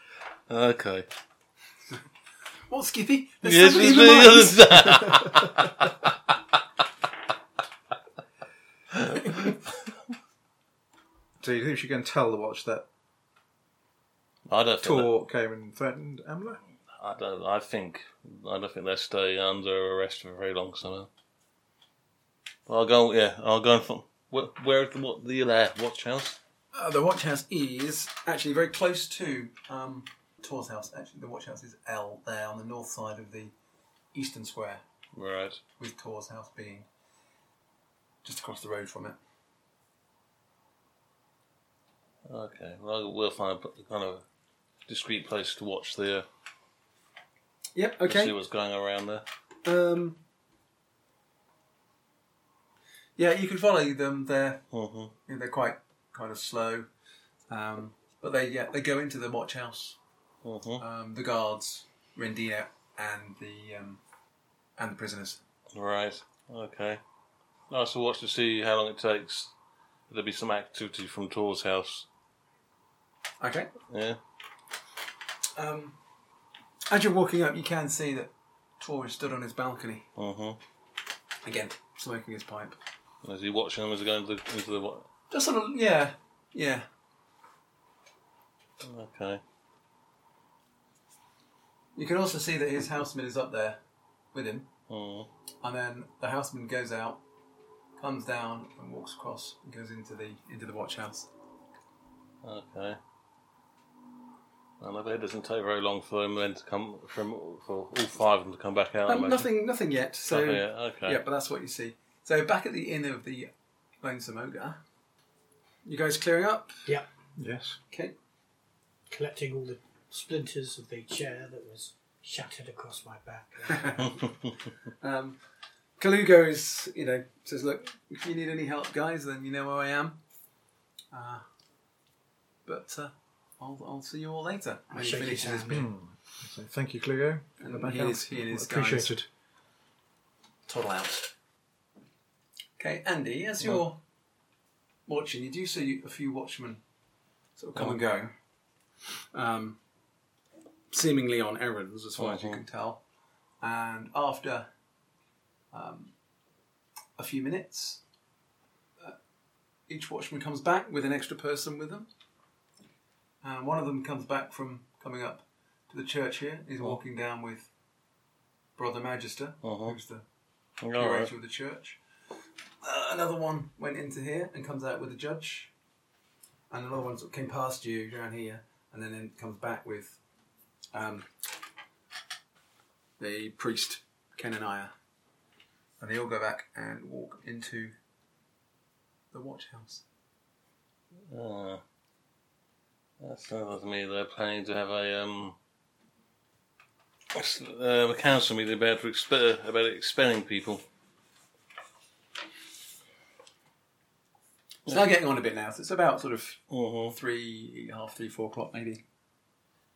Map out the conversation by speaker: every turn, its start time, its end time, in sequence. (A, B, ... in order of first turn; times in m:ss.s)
0:00.5-0:01.1 A
0:02.7-0:04.7 B
0:03.4-0:06.0 A
0:08.9-0:09.6 A
0:11.4-0:12.9 C
0:14.5-0:15.1 A
0:14.8-0:16.6 C
0:17.0-0:21.1 A
0:22.7-0:26.4 A
0:26.7-0:33.5 B
0:34.1-0:34.8 B
0:35.1-0:35.6 A
0:35.8-0:36.9 B
0:38.2-0:39.2 B
0:42.2-0:44.2 A
0:44.9-0:46.3 A
0:47.8-0:48.4 B
0:48.1-0:49.2 A
0:49.6-0:50.2 B
0:53.2-0:54.6 B
0:54.7-0:55.1 A
0:55.3-0:56.9 B
0:57.5-1:00.0 B
1:00.4-1:00.8 A
1:00.8-1:04.0 B
1:04.8-1:05.4 B
1:05.7-1:07.0 A
1:07.7-1:09.5 A
1:10.1-1:12.1 A
1:13.4-1:13.7 B
1:13.9-1:14.2 A
1:15.6-1:16.0 B
1:16.9-1:20.1 B
1:20.2-1:20.6 A
1:21.4-1:22.8 B
1:23.2-1:25.1 A
1:25.3-1:26.9 B
1:28.8-1:29.4 A
1:32.0-1:33.8 B
1:34.3-1:34.7 B
1:34.9-1:35.3 A
1:35.6-1:37.2 B
1:38.0-1:41.3 B
1:42.4-1:43.0 A
1:44.8-1:49.5 A
1:49.1-1:53.5 B
1:50.3-1:51.2 A
1:54.0-1:54.8 B
1:55.8-1:56.8 B
1:57.4-1:57.8 C
1:59.1-2:04.1 D
2:03.7-2:04.0 B
2:05.0-2:05.4 B
2:06.0-2:10.2 B
2:11.1-2:11.4 B
2:12.7-2:15.9 B
2:14.9-2:15.9 D
2:15.7-2:19.3 C
2:17.6-2:19.1 B
2:20.7-2:21.3 B
2:22.8-2:24.0 B
2:25.1-2:26.8 B
2:27.6-2:28.3 B
2:29.3-2:29.8 B
2:30.9-2:33.0 B
2:32.2-2:32.6 A
2:33.6-2:34.7 B
2:35.7-2:36.1 B
2:37.2-2:38.0 B
2:39.9-2:42.1 B
2:43.4-2:47.7 B
2:48.8-2:50.2 B
2:49.6-2:50.0 A
2:50.8-2:51.3 A
2:51.0-2:52.0 B
2:52.8-2:55.7 B
2:56.7-3:00.2 B
3:00.9-3:01.3 B
3:03.2-3:04.9 B
3:06.0-3:07.9 B
3:09.3-3:10.0 B
3:11.3-3:11.8 A
3:13.2-3:15.6 A
3:17.3-3:20.8 A
3:24.9-3:29.0 B
3:26.7-3:27.2 A